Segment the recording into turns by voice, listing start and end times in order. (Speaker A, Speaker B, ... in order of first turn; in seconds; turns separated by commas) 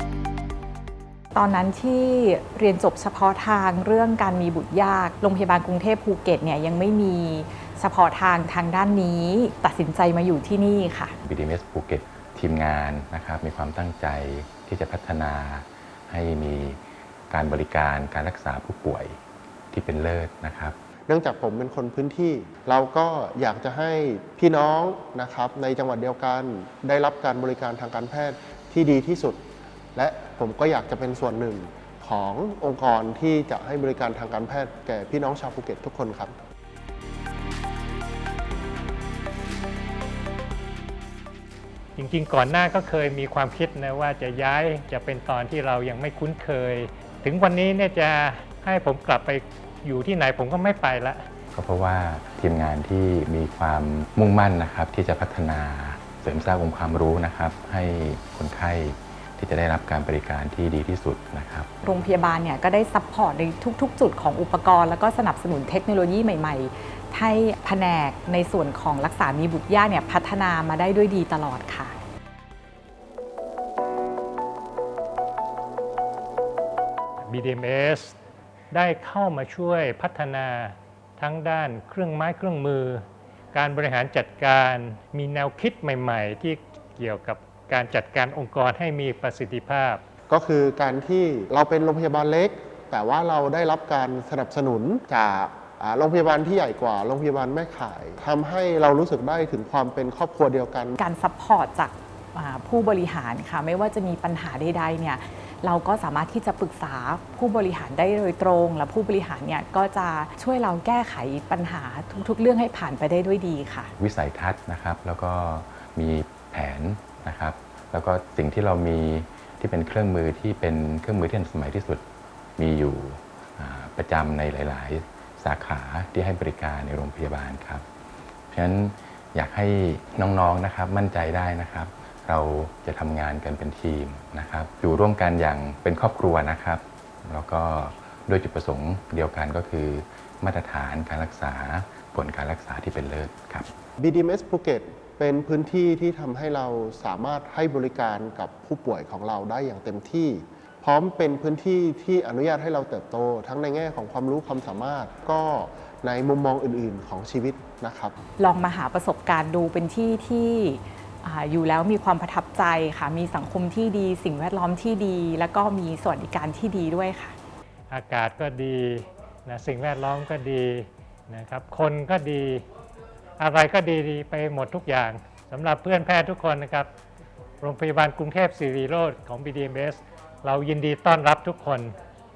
Speaker A: 1.3-11.2, Speaker B: 11.2-19.2, Speaker B: 19.7-20.8, Speaker C: 21.1-29.4, Speaker C: 29.9-36.3, Speaker D: 42.0-51.2, Speaker B: 51.5-61.7, Speaker A: 61.8-72.0, Speaker D: 77.2-78.2, Speaker D: 78.7-90.0, Speaker C: 90.3-101.0, Speaker A: 101.0-113.9, Speaker B: 114.0-122.0, Speaker B: 122.6-127.8, Speaker B: 128.5-143.7, Speaker C: 144.0-158.1, Speaker A: 158.4-167.3, Speaker D: 167.9-172.6, Speaker D: 173.4-176.9, Speaker D: 177.6-181.9